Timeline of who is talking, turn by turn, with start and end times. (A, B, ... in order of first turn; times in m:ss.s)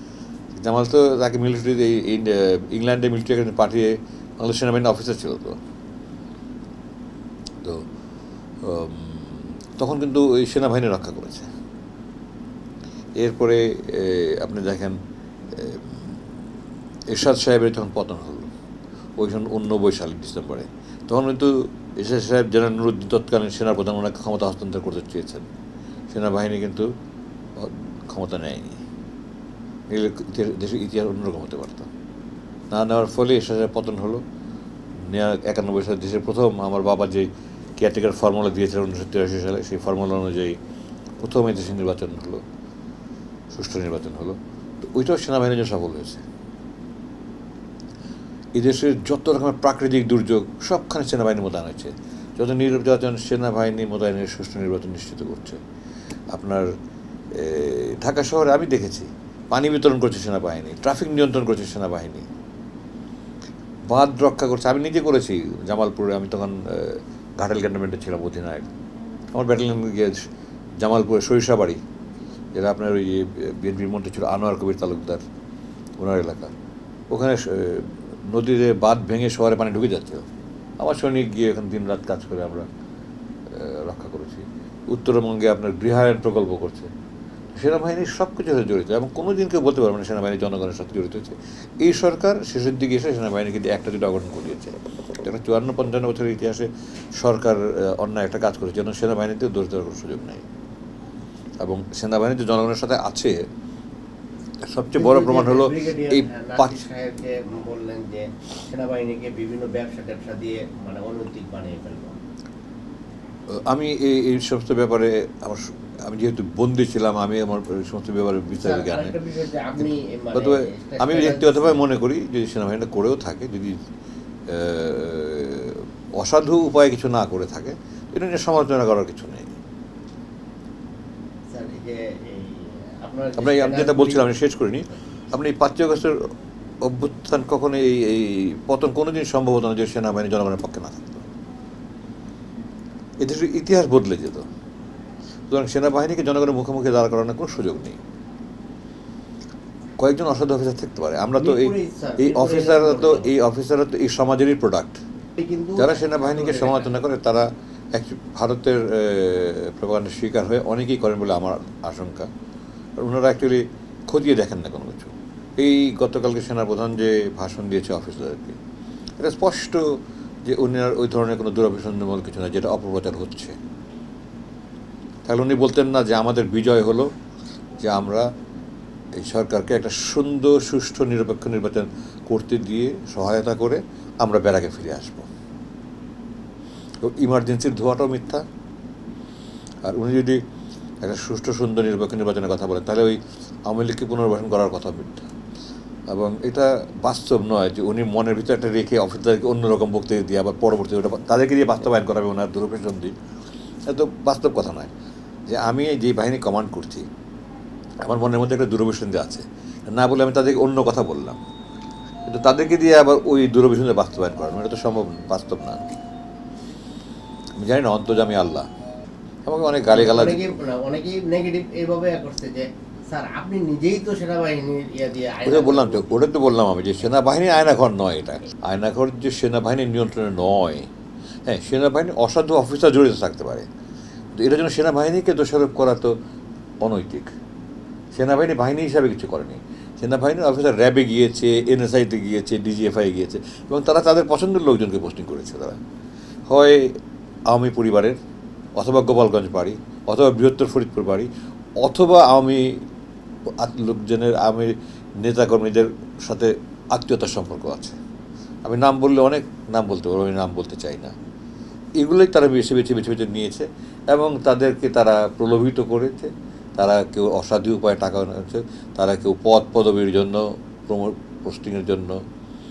0:00.5-0:05.6 A
0:08.6-0:11.5 A
0:13.2-0:15.0 A
0:15.5-0:16.2 A
0:17.1-0:18.5 A
0:19.2-0:25.5 A
0:26.1-0:26.9 A
0:27.6-0:28.8 A
0:29.9-0:31.9 A
0:32.7-0:34.2 A
0:35.0-0:40.6 A
0:41.2-0:42.4 A
0:43.5-0:46.2 A
0:48.5-0:55.6 A
0:56.3-0:56.7 A
0:57.3-1:02.3 A
1:03.9-1:08.7 A
1:09.3-1:10.3 A
1:10.8-1:11.8 A
1:12.5-1:15.2 A
1:16.0-1:16.5 A
1:17.1-1:20.2 A
1:20.8-1:22.7 A
1:23.5-1:26.9 A
1:27.5-1:40.4 A
1:41.6-1:43.4 A
1:44.6-1:46.8 A
1:44.9-1:52.2 B
1:53.5-1:59.2 A
1:58.6-2:01.8 B
1:59.8-2:03.8 A
2:04.5-2:09.5 A
2:11.5-2:14.3 B
2:13.4-2:16.3 A
2:16.8-2:21.2 A
2:23.2-2:24.4 A
2:25.5-2:28.0 A
2:30.0-2:35.0 A
2:31.4-2:33.3 B
2:35.4-2:36.9 B
2:35.8-2:42.3 A
2:43.0-2:48.6 A
2:49.2-2:53.6 A
2:55.2-2:57.1 A
2:57.8-2:58.3 A
2:59.2-3:05.3 A
3:07.0-3:08.4 A
3:09.8-3:10.4 A
3:11.0-3:15.2 A
3:16.1-3:23.1 A
3:23.9-3:24.9 A
3:25.5-3:27.1 A
3:28.0-3:31.4 A
3:32.2-3:36.0 A
3:37.6-3:38.7 A
3:39.4-3:40.6 A
3:39.9-3:46.2 B
3:45.4-3:50.9 A
3:51.4-3:53.7 A
3:54.4-3:56.1 A
3:56.8-3:57.3 A
3:58.1-4:05.8 A
4:06.5-4:06.9 A
4:07.5-4:08.2 A
4:08.8-4:11.3 A
4:11.8-4:12.8 A
4:13.6-4:18.0 A
4:18.6-4:21.1 A
4:22.0-4:32.2 A